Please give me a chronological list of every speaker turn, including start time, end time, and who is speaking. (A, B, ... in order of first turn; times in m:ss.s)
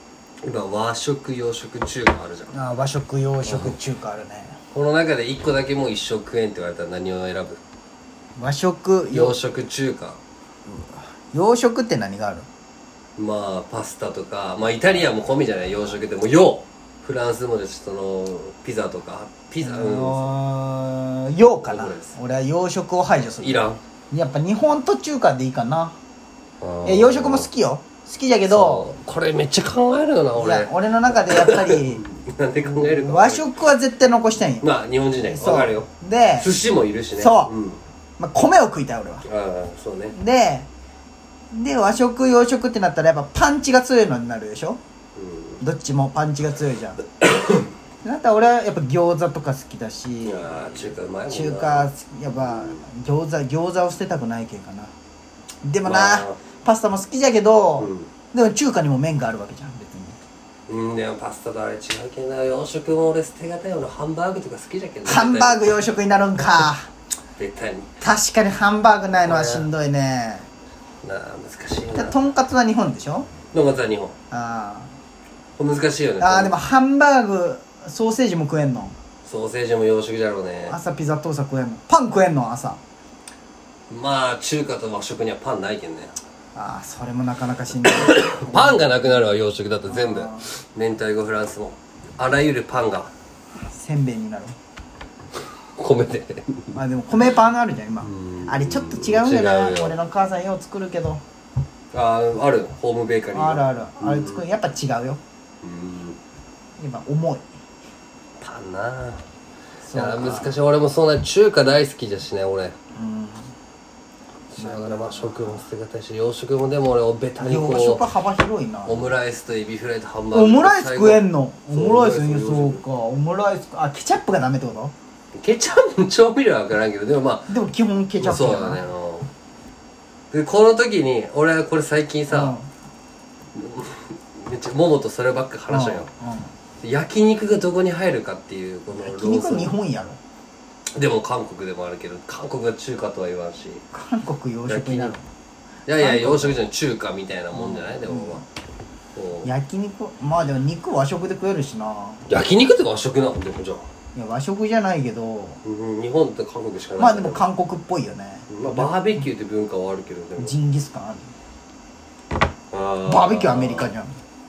0:00.4-0:02.6 A
0:02.5-0:04.6 B
0:03.4-0:03.8 A
0:04.7-0:07.6 A
0:08.4-0:09.4 B
0:09.1-0:10.2 A
0:10.7-0:12.5 B
0:13.2-0:20.3 A
0:19.6-0:26.0 B
0:21.6-0:22.2 A
0:23.4-0:23.8 A
0:26.6-0:27.5 A
0:26.8-0:28.9 B
0:28.5-0:33.6 A
0:30.4-0:32.0 B
0:32.6-0:36.5 B
0:34.6-0:37.8 A
0:37.2-0:37.5 B
0:38.2-0:39.3 B
0:39.2-0:40.2 A
0:40.1-0:40.7 B
0:41.5-0:44.8 B
0:45.2-0:45.6 A
0:45.6-0:47.0 B
0:47.2-0:47.7 A
0:48.0-0:54.9 B
0:50.2-0:52.8 A
0:55.6-1:00.2 B
0:55.8-0:56.4 A
0:57.8-0:58.1 A
1:00.7-1:05.7 A
1:05.0-1:06.9 B
1:07.4-1:08.0 A
1:08.0-1:10.5 B
1:09.2-1:09.7 A
1:11.0-1:12.2 A
1:11.9-1:13.3 B
1:13.5-1:14.2 A
1:14.3-1:15.0 B
1:15.6-1:16.6 A
1:16.2-1:19.0 B
1:19.2-1:20.8 A
1:20.7-1:22.8 B
1:23.9-1:26.1 A
1:26.6-1:29.3 B
1:27.9-1:33.1 A
1:29.9-1:30.5 B
1:33.6-1:34.6 B
1:35.8-1:36.7 A
1:36.7-1:41.2 B
1:38.0-1:40.0 A
1:41.9-1:44.4 A
1:43.3-1:45.2 B
1:45.6-1:46.2 A
1:46.8-1:47.5 B
1:48.4-1:49.2 A
1:49.8-1:50.6 B
1:49.9-1:52.8 A
1:52.9-1:53.5 B
1:54.5-1:58.1 A
1:54.5-1:55.7 B
1:57.4-1:59.2 B
1:58.9-2:02.8 A
2:00.3-2:04.9 B
2:05.4-2:07.5 A
2:07.5-2:08.8 B
2:08.2-2:09.3 A
2:10.3-2:12.6 A
2:12.3-2:12.7 B
2:13.6-2:16.1 A
2:15.7-2:16.5 B
2:16.8-2:19.8 A
2:18.9-2:20.2 B
2:20.9-2:23.8 A
2:23.9-2:25.2 B
2:24.7-2:25.2 A
2:25.9-2:28.4 A
2:26.0-2:26.6 B
2:27.5-2:28.4 B
2:29.2-2:29.5 A
2:29.4-2:32.3 B
2:32.3-2:33.9 A
2:34.2-2:35.6 B
2:35.6-2:37.4 A
2:37.0-2:39.3 B
2:38.5-2:40.5 A
2:40.4-2:41.3 B
2:42.7-2:43.9 A
2:43.1-2:44.2 B